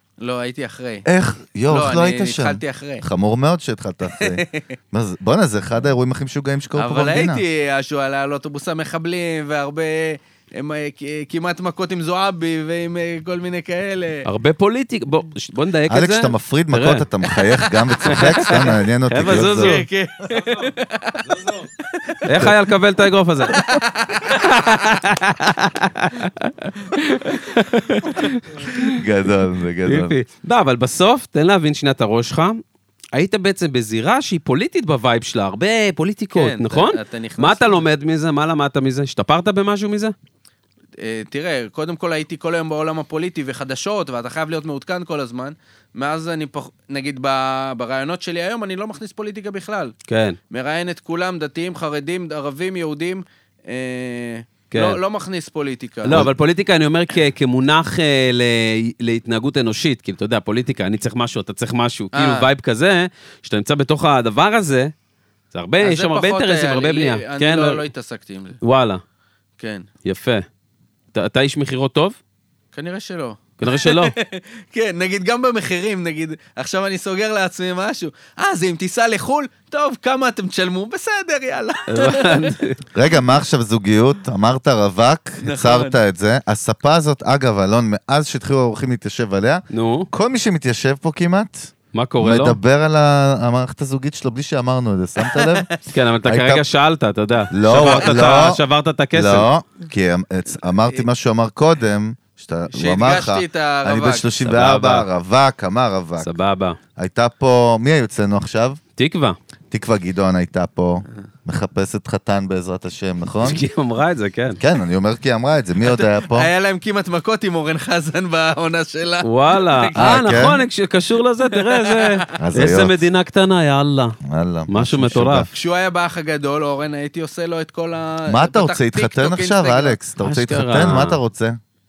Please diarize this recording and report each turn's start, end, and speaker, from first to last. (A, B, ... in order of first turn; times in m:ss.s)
0:00.2-0:01.0 A
0:01.0-0:07.4 B
0:01.7-0:03.0 A
0:04.2-0:04.7 A
0:06.8-0:14.2 A
0:14.2-0:17.0 C
0:15.9-0:19.8 B
0:17.3-0:22.5 A
0:18.0-0:19.8 C
0:22.2-0:23.6 C
0:23.5-0:24.8 A
0:24.2-0:29.0 C
0:28.9-0:30.2 B
0:29.8-0:32.6 C
0:33.1-0:40.1 C
0:36.3-0:37.8 A
0:41.0-0:49.9 A
0:50.1-0:50.4 C
0:50.5-0:56.2 A
0:54.7-0:55.0 C
0:56.0-1:04.9 C
1:02.1-1:02.5 A
1:05.5-1:07.8 C
1:05.8-1:08.6 A
1:08.6-1:09.0 C
1:09.6-1:09.8 A
1:10.0-1:10.4 C
1:11.1-1:12.2 C
1:12.7-1:22.4 A
1:13.6-1:14.1 C
1:21.9-1:22.8 C
1:22.9-1:35.7 B
1:25.4-1:26.0 A
1:29.7-1:30.1 C
1:31.9-1:32.6 C
1:35.2-1:35.7 A
1:35.9-1:39.5 C
1:36.2-1:36.6 B
1:37.5-1:38.6 B
1:39.1-1:46.3 B
1:42.7-1:44.3 A
1:44.4-1:45.1 C
1:46.2-1:46.8 C
1:47.0-1:48.8 B
1:49.0-1:49.4 C
1:49.7-1:53.6 B
1:53.4-1:54.6 C
1:54.6-1:56.5 B
1:55.8-2:00.5 A
1:59.2-2:04.2 C
2:00.0-2:00.6 B
2:01.5-2:02.2 A
2:02.4-2:03.0 B
2:04.2-2:05.5 B
2:04.7-2:05.5 C
2:05.5-2:10.0 A
2:08.3-2:11.6 B
2:10.2-2:11.2 C